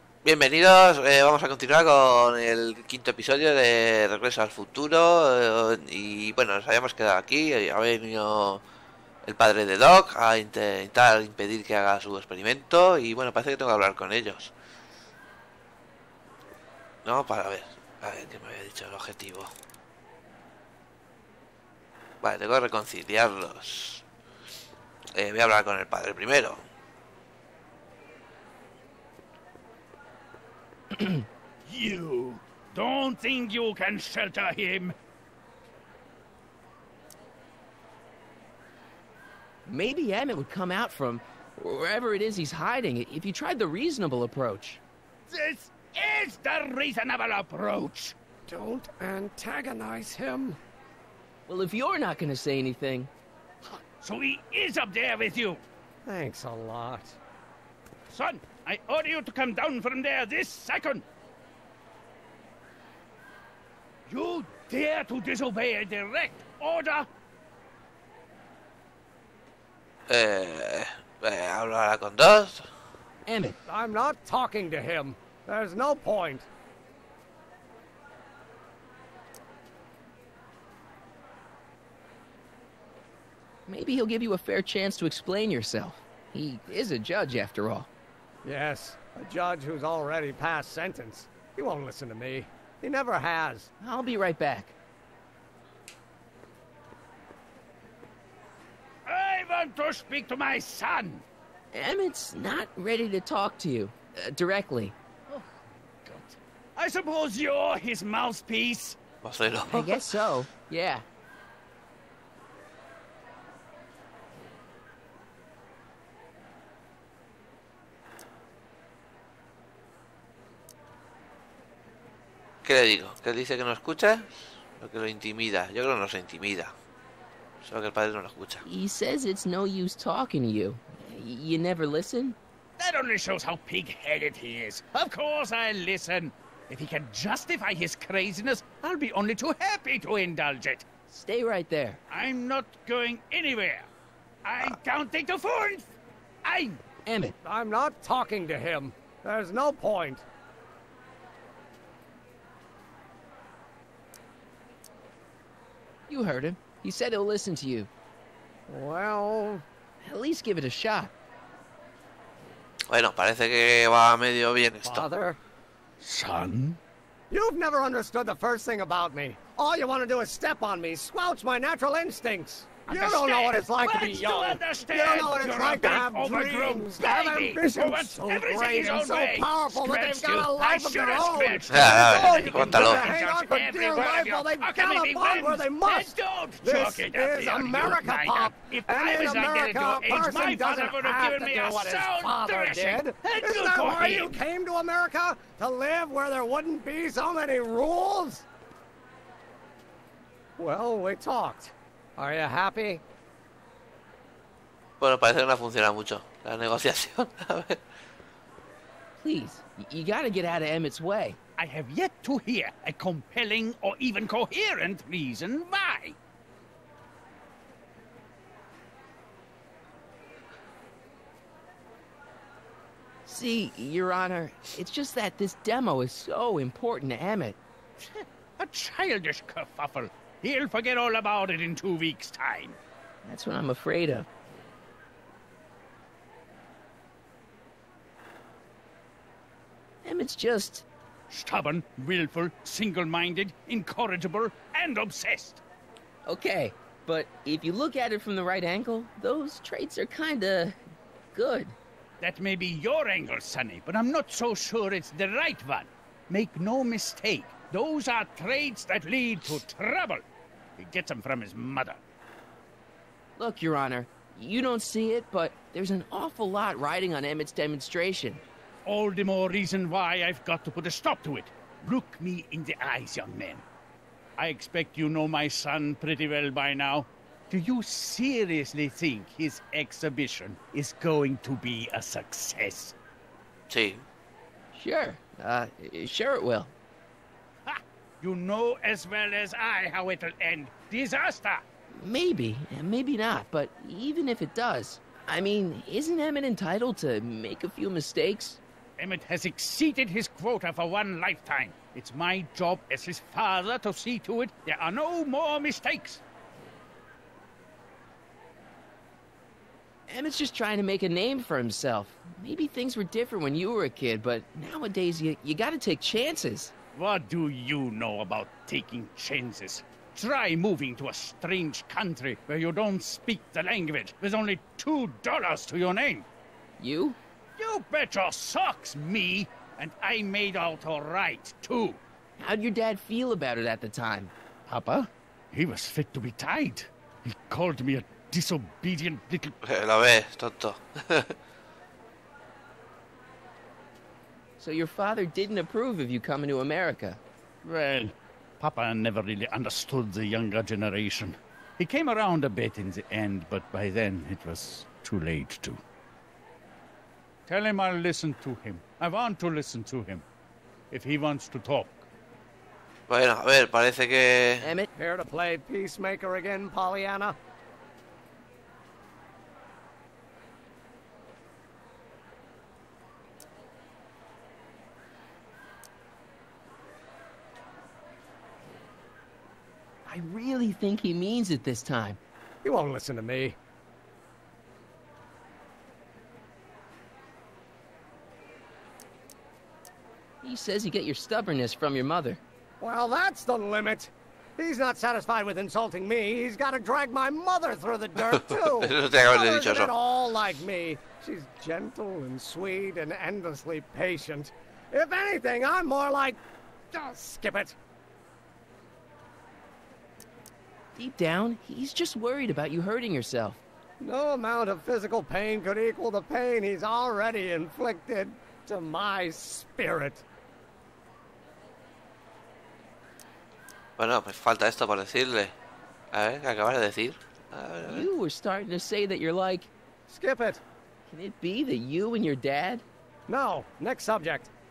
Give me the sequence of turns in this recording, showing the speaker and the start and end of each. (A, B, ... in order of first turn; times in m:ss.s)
0:00.2-0:08.6 A
0:09.2-0:14.5 A
0:17.0-0:19.5 A
0:22.2-0:24.0 A
0:25.2-0:26.6 A
0:31.0-0:31.2 B
0:31.7-0:34.9 C
0:39.7-0:44.8 B
0:45.3-0:48.2 C
0:48.5-0:50.6 D
0:51.5-0:53.1 B
0:53.8-0:55.6 C
0:56.0-0:57.2 D
0:58.1-1:01.0 C
1:04.1-1:07.1 C
1:10.1-1:12.7 A
1:13.3-1:13.6 B
1:13.7-1:16.5 D
1:23.7-1:27.9 B
1:28.4-1:33.7 D
1:33.8-1:34.8 B
1:39.1-1:41.2 C
1:41.7-1:45.0 B
1:46.0-1:49.0 C
1:49.2-1:50.2 A
1:49.7-1:51.0 B
2:02.6-2:06.7 A
2:07.6-2:08.6 A
2:08.6-2:12.4 B
2:12.8-2:20.9 C
2:21.1-2:22.0 B
2:22.1-2:23.9 C
2:24.4-2:25.9 C
2:26.4-2:26.8 C
2:27.1-2:27.4 B
2:27.4-2:30.2 D
2:36.1-2:37.9 B
2:38.7-2:39.6 D
2:40.0-2:41.1 B
2:42.9-2:45.1 A
2:44.8-2:45.4 D
2:46.0-2:46.8 C
2:47.3-3:18.5 D
2:52.9-3:14.4 C
3:01.7-3:03.0 A
3:20.6-3:23.0 D
3:25.0-3:27.8 A
3:29.2-3:31.4 B
3:31.6-3:36.2 C
3:43.3-3:47.6 B
3:48.0-3:52.8 C
3:53.2-3:54.3 B
4:00.0-4:00.9 B
4:01.3-4:05.6 C
4:06.3-4:10.8 B
4:11.3-4:11.8 B
4:12.2-4:20.2 C
4:20.8-4:22.0 C
4:23.4-4:28.4 B
4:28.8-4:33.6 C
4:34.4-4:43.0 C
4:43.7-4:44.0 A
4:44.7-4:46.7 B
4:47.7-4:51.6 C
4:51.9-4:58.6 B
4:59.0-5:06.2 C
5:10.1-5:16.7 B
5:17.0-5:26.3 C
5:26.8-5:27.2 B
5:27.6-5:32.0 C
5:32.4-5:34.3 B
5:34.7-5:39.5 C
5:39.6-5:41.4 A
5:44.6-5:47.2 B
5:47.6-5:55.8 C
5:57.5-6:00.2 C
6:00.9-6:02.0 C
6:03.1-6:04.7 A
6:04.6-6:04.9 B
6:05.0-6:07.4 D
6:20.1-6:22.2 B
6:22.6-6:23.6 D
6:30.4-6:32.4 B
6:32.8-6:47.8 D
6:38.3-6:39.9 A
6:51.0-6:53.6 B
6:54.0-7:00.2 D
7:04.0-7:05.5 A
7:06.1-7:08.1 A
7:07.8-7:09.7 B
7:10.1-7:10.6 D
7:11.1-7:12.8 B
7:13.3-7:14.5 D